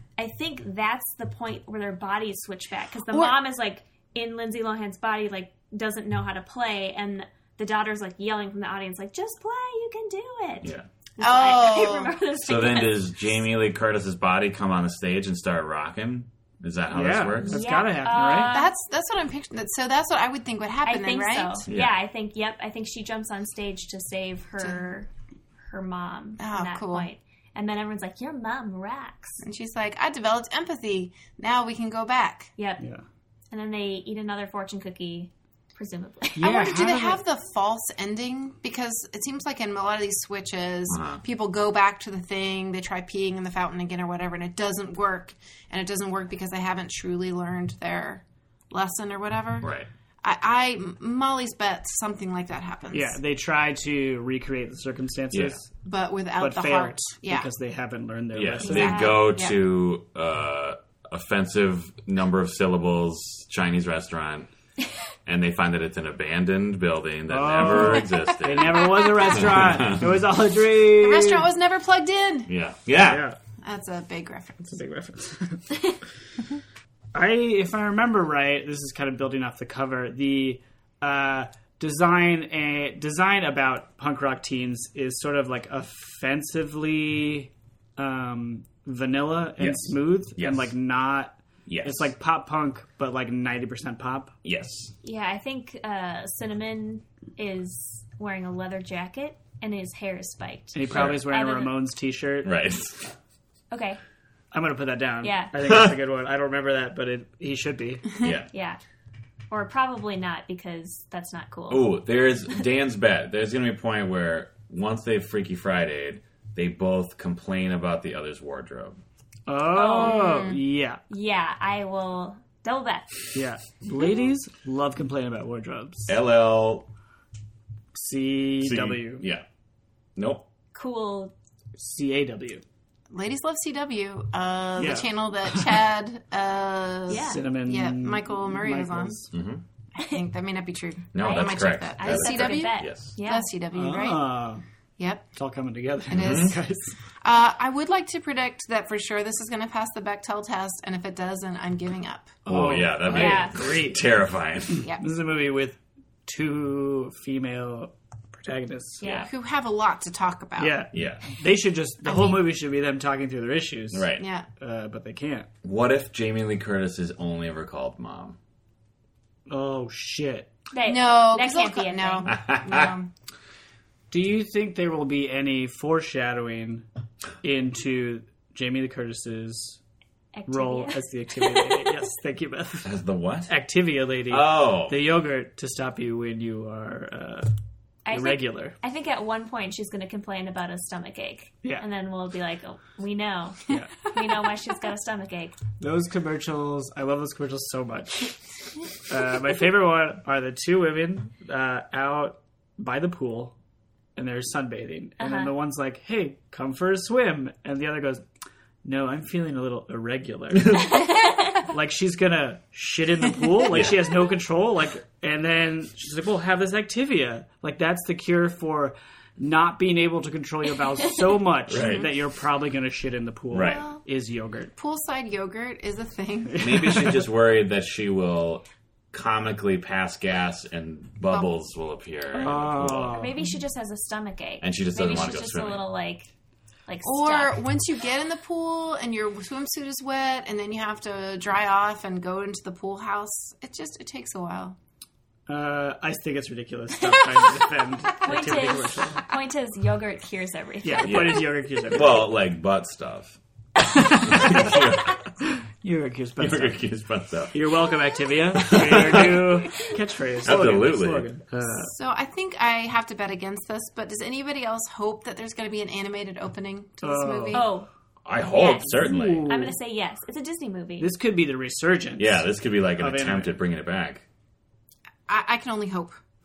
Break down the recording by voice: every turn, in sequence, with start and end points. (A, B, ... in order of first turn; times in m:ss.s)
0:00.2-0:13.1 A
0:11.2-0:12.1 B
0:12.4-0:17.6 C
0:16.9-0:18.5 D
0:17.4-0:18.7 A
0:18.5-0:21.6 B
0:20.8-0:25.1 A
0:21.7-0:22.0 C
0:25.6-0:29.4 A
0:26.4-0:27.1 B
0:29.4-0:32.5 B
0:32.6-0:32.8 A
0:33.5-0:36.5 A
0:36.4-0:37.2 D
0:36.4-0:53.2 B
0:40.9-0:41.2 C
0:49.6-0:49.9 C
0:52.9-0:55.7 D
0:55.3-0:55.6 C
0:55.8-0:57.5 B
0:56.4-0:59.1 D
0:58.3-1:04.5 C
0:58.6-0:59.6 B
1:05.2-1:10.2 C
1:07.3-1:11.5 D
1:11.0-1:12.5 B
1:12.5-1:13.3 C
1:13.0-1:13.4 D
1:13.6-1:14.8 B
1:14.6-1:16.0 D
1:17.1-1:34.3 D
1:29.6-1:30.7 C
1:31.7-1:32.1 C
1:34.4-1:34.9 C
1:35.0-1:41.7 A
1:40.7-1:42.5 D
1:40.9-1:41.2 C
1:42.4-1:43.1 C
1:43.7-1:44.0 A
1:44.5-1:48.2 D
1:45.2-1:45.5 A
1:45.7-1:45.9 C
1:48.2-1:48.5 C
1:48.5-1:48.8 A
1:49.5-1:51.9 A
1:51.7-1:59.0 C
1:59.5-2:01.0 D
1:59.7-2:00.6 A
2:00.0-2:00.6 B
2:01.1-2:03.3 A
2:03.3-2:06.1 D
2:06.1-2:06.9 C
2:07.9-2:09.2 D
2:08.6-2:09.4 C
2:10.2-2:10.4 C
2:10.7-2:11.3 A
2:11.8-2:12.6 D
2:13.1-2:19.2 B
2:14.8-2:15.8 D
2:17.1-2:17.4 A
2:17.1-2:19.3 D
2:19.3-2:19.6 C
2:20.0-2:24.3 B
2:21.1-2:23.1 C
2:21.2-2:23.5 A
2:23.7-2:24.6 D
2:25.0-2:25.3 B
2:25.3-2:26.9 D
2:26.1-2:26.6 B
2:26.1-2:26.5 C
2:27.2-2:32.4 B
2:32.4-2:34.0 D
2:32.4-2:34.8 C
2:33.1-2:33.6 A
2:34.8-2:39.3 D
2:39.0-2:39.3 A
2:39.0-2:40.8 B
2:40.6-2:45.5 D
2:40.9-2:41.2 C
2:42.0-2:42.4 B
2:43.9-2:44.2 C
2:44.2-2:44.5 B
2:45.6-2:48.4 C
2:49.5-2:50.5 D
2:50.7-2:52.3 A
2:50.8-2:53.1 B
2:52.3-2:52.9 C
2:54.1-2:56.8 D
2:57.4-2:59.8 D
3:00.3-3:01.9 A
3:00.5-3:02.9 D
3:02.8-3:03.5 C
3:03.5-3:07.5 D
3:04.3-3:05.0 C
3:08.0-3:15.6 A
3:08.1-3:08.7 D
3:13.7-3:14.0 D
3:15.8-3:18.4 D
3:19.1-3:23.5 D
3:24.2-3:28.2 D
3:25.2-3:25.5 A
3:28.8-3:44.7 D
3:33.7-3:34.0 C
3:41.7-3:42.1 C
3:43.5-3:43.8 C
3:43.6-3:44.0 B
3:44.8-3:47.0 B
3:46.5-3:47.2 D
3:46.6-3:53.3 C
3:52.4-3:53.5 D
3:53.0-3:56.3 A
3:54.6-3:55.8 C
3:56.9-3:57.6 A
3:57.0-4:04.8 B
4:05.5-4:09.3 D
4:08.2-4:11.5 A
4:10.8-4:12.3 D
4:11.0-4:13.4 C
4:13.8-4:16.8 D
4:14.2-4:15.2 C
4:16.4-4:17.6 C
4:17.5-4:21.9 D
4:18.5-4:19.7 C
4:20.4-4:21.3 C
4:21.8-4:27.7 B
4:27.0-4:27.7 D
4:27.5-4:27.9 A
4:28.2-4:29.5 C
4:28.4-4:31.1 A
4:28.8-4:29.8 D
4:31.0-4:33.6 D
4:32.2-4:34.2 C
4:35.3-4:36.2 B